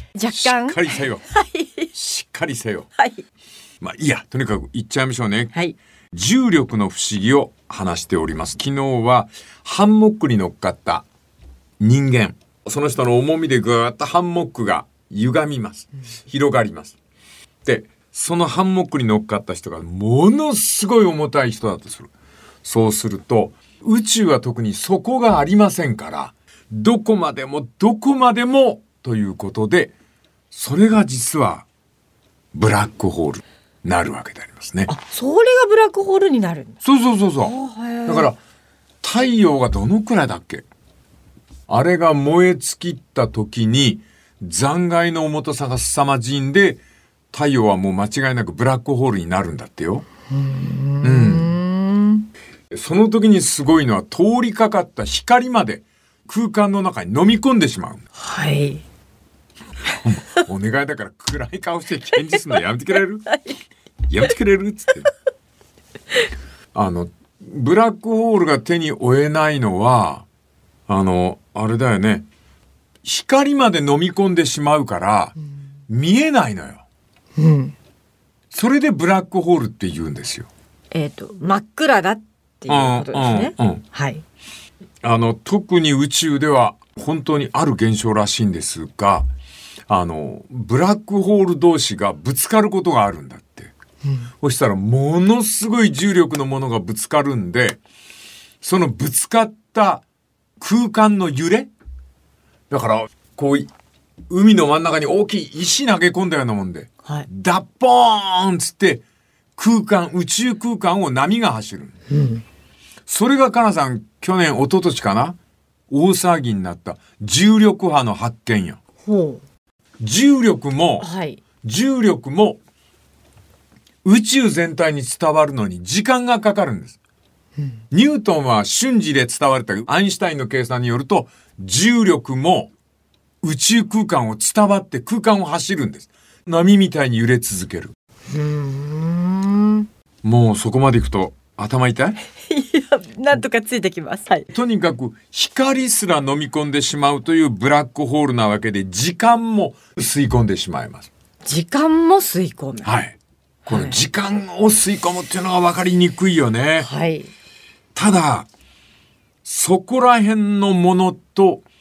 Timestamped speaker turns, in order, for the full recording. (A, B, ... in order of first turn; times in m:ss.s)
0:00.2-0:01.9 A
0:00.3-0:01.2 B
0:01.9-0:02.9 B
0:03.0-0:03.2 A
0:03.8-0:05.5 B
0:06.1-0:11.0 B
0:11.8-0:17.0 B
0:17.6-0:22.1 B
0:22.6-0:29.9 B
0:30.5-0:31.6 B
0:32.5-0:34.9 B
0:34.9-0:36.8 A
0:36.8-0:37.5 B
0:37.4-0:38.3 A
0:38.1-0:38.4 B
0:39.0-0:40.6 B
0:41.7-0:46.8 B
0:47.3-0:50.0 B
0:50.3-0:52.3 A
0:51.0-0:51.6 B
0:52.7-0:58.0 B
0:58.2-0:58.8 A
1:00.0-1:03.3 B
1:03.3-1:03.5 A
1:04.1-1:05.1 B
1:06.7-1:10.2 B
1:10.9-1:12.2 B
1:13.0-1:15.4 B
1:15.9-1:16.8 B
1:17.4-1:17.7 A
1:18.5-1:20.5 B
1:20.9-1:24.2 A
1:22.7-1:23.8 B
1:25.0-1:29.3 B
1:29.9-1:33.7 B
1:34.4-1:37.8 B
1:38.6-1:40.0 B
1:40.6-1:41.7 B
1:42.7-1:43.7 B
1:44.3-1:49.0 B
1:49.6-1:51.9 B
1:52.1-1:52.4 A
1:53.1-1:55.4 B
1:55.9-1:58.8 B
1:59.0-1:59.4 A
2:00.0-2:01.1 B
2:01.0-2:01.4 A
2:01.6-2:02.6 B
2:04.0-2:07.0 B
2:07.9-2:12.7 B
2:13.4-2:17.9 B
2:18.3-2:19.9 A
2:20.2-2:22.2 B
2:22.5-2:24.5 A
2:24.5-2:31.1 B
2:31.4-2:32.9 A
2:32.8-2:36.9 B
2:33.6-2:34.0 A
2:36.8-2:37.3 A
2:37.9-2:38.5 B
2:39.4-2:41.6 B